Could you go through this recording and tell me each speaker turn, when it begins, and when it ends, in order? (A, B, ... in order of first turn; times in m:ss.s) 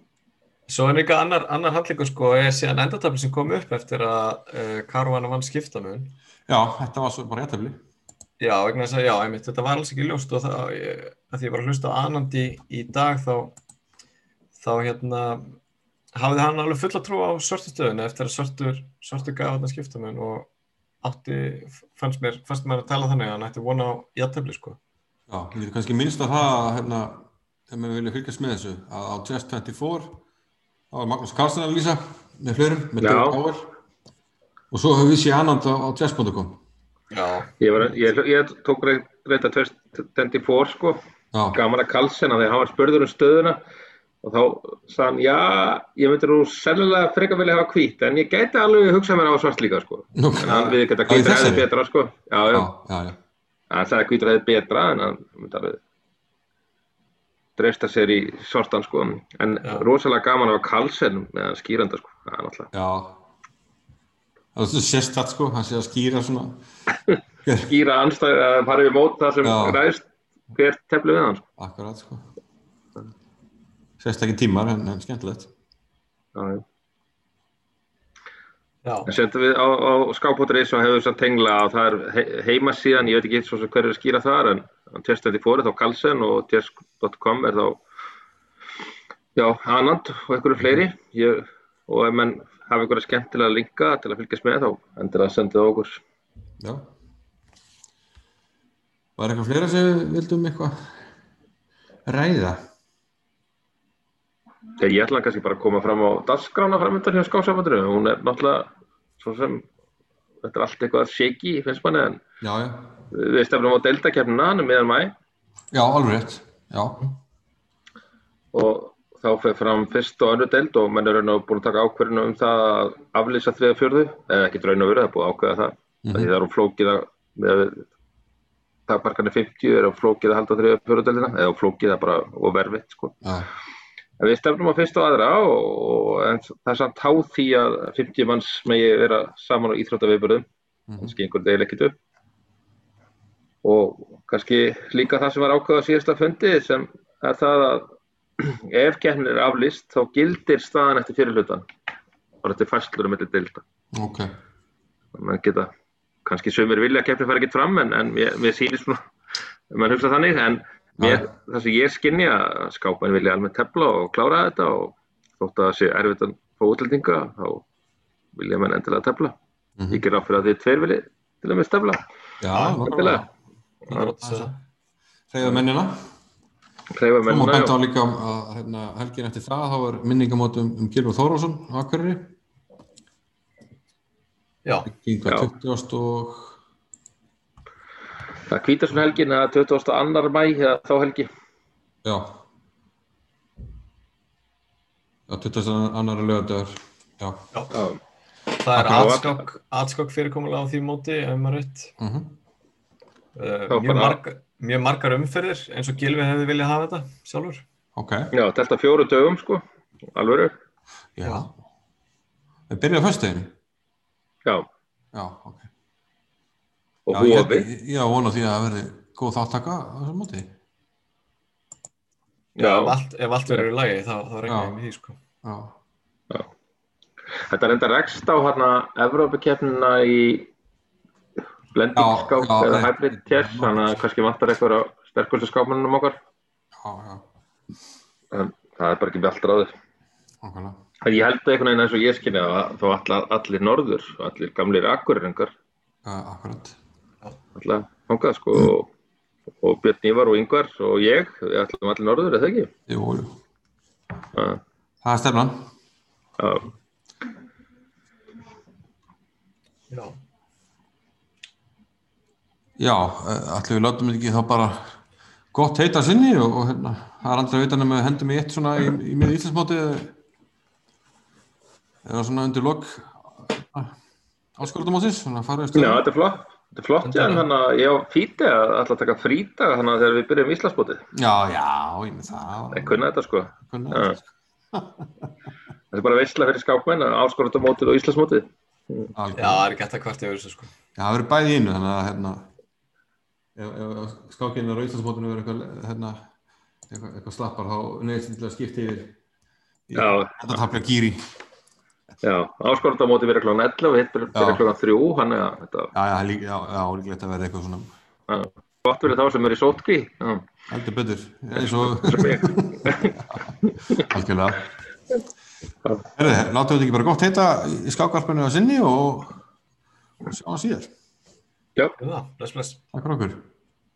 0:00.7-0:06.2 A
0:06.5-0:07.8 B
0:08.4-0:13.6 A
0:14.6-0:15.6 A
0:16.2-0:20.5 A
0:21.0-0:24.8 A
0:25.3-0:30.2 B
0:30.9-0:33.7 B
0:33.0-0:33.4 C
0:34.7-0:36.6 B
0:37.1-0:38.0 A
0:37.6-0:41.0 C
0:41.3-0:41.6 B
0:41.5-0:43.6 C
0:44.2-0:52.7 C
0:50.2-0:51.7 B
0:50.4-0:50.8 A
0:52.5-0:53.2 B
0:53.7-0:55.8 C
0:57.6-1:02.7 C
1:02.7-1:03.2 B
1:04.6-1:06.6 B
1:07.4-1:07.7 B
1:07.6-1:11.5 C
1:09.4-1:09.8 B
1:11.6-1:12.3 B
1:14.0-1:15.5 B
1:16.4-1:16.6 C
1:18.8-1:19.1 A
1:19.1-1:27.8 C
1:29.4-1:36.0 C
1:36.6-1:36.9 B
1:39.2-1:40.7 B
1:42.1-1:42.6 B
1:44.8-1:49.7 C
1:50.4-1:52.2 C
1:52.4-1:53.0 B
1:53.1-1:55.1 C
1:55.7-1:57.1 B
1:58.5-2:07.9 C
2:06.0-2:06.3 B
2:08.9-2:13.2 C
2:13.2-2:13.5 B
2:14.2-2:20.5 C
2:20.9-2:21.2 B
2:21.0-2:22.0 C
2:23.6-2:27.9 C
2:28.4-2:31.6 C
2:32.4-2:33.6 C
2:33.9-2:34.3 B
2:35.2-2:35.7 C
2:36.2-2:39.0 C
2:39.7-2:47.6 C
2:41.0-2:41.3 B
2:48.4-2:49.4 C
2:49.8-2:50.0 B
2:49.9-2:52.0 C
2:52.4-2:53.3 B
2:52.5-2:52.8 A
2:52.8-2:53.2 C
2:53.9-2:54.5 A
2:53.9-2:54.6 B
2:55.3-2:55.9 B
2:56.9-2:57.8 C
2:57.2-3:02.4 B
3:04.8-3:06.6 B
3:08.5-3:11.3 C
3:12.0-3:12.4 B
3:15.3-3:17.5 B
3:17.7-3:18.0 C
3:18.6-3:21.9 A
3:18.7-3:19.2 B
3:19.0-3:19.4 C
3:22.0-3:22.4 B
3:23.4-3:27.6 A
3:23.7-3:24.2 C
3:28.0-3:28.3 B
3:28.3-3:29.6 C
3:30.1-3:30.5 C
3:31.2-3:31.6 B
3:32.7-3:33.5 B
3:35.1-3:35.7 B
3:37.1-3:37.7 C
3:37.1-3:40.5 B
3:42.6-3:43.0 C
3:42.6-3:45.2 A
3:44.5-3:44.8 B
3:45.4-3:45.8 B
3:47.5-3:50.5 C
3:51.7-3:56.2 C
3:51.9-3:54.0 B
3:56.8-3:57.2 B
3:58.3-3:59.7 C
4:00.4-4:00.8 B
4:01.0-4:05.5 C
4:06.0-4:06.8 B
4:07.6-4:08.9 C
4:09.6-4:12.7 C
4:12.9-4:13.4 B
4:14.4-4:14.6 C
4:15.0-4:15.6 B
4:16.4-4:16.7 C
4:19.9-4:20.2 A
4:22.8-4:24.8 B
4:25.5-4:30.2 B
4:32.0-4:33.9 B
4:34.6-4:36.0 B
4:35.7-4:41.0 C
4:37.0-4:37.5 A
4:41.1-4:45.3 B
4:42.7-4:44.2 C
4:45.9-4:49.1 C
4:49.1-4:49.7 B
4:49.4-4:50.7 A
4:51.0-4:52.5 B
4:53.6-4:56.3 B
4:56.9-4:59.2 B
4:59.9-5:01.2 B
4:59.9-5:00.6 C
5:02.2-5:05.9 C
5:04.3-5:04.6 B
5:05.9-5:07.9 B
5:08.3-5:10.4 C
5:10.7-5:14.7 B
5:11.7-5:13.2 C
5:13.7-5:14.0 C
5:16.1-5:19.4 B
5:20.3-5:20.9 B
5:22.0-5:22.8 A
5:22.9-5:23.4 B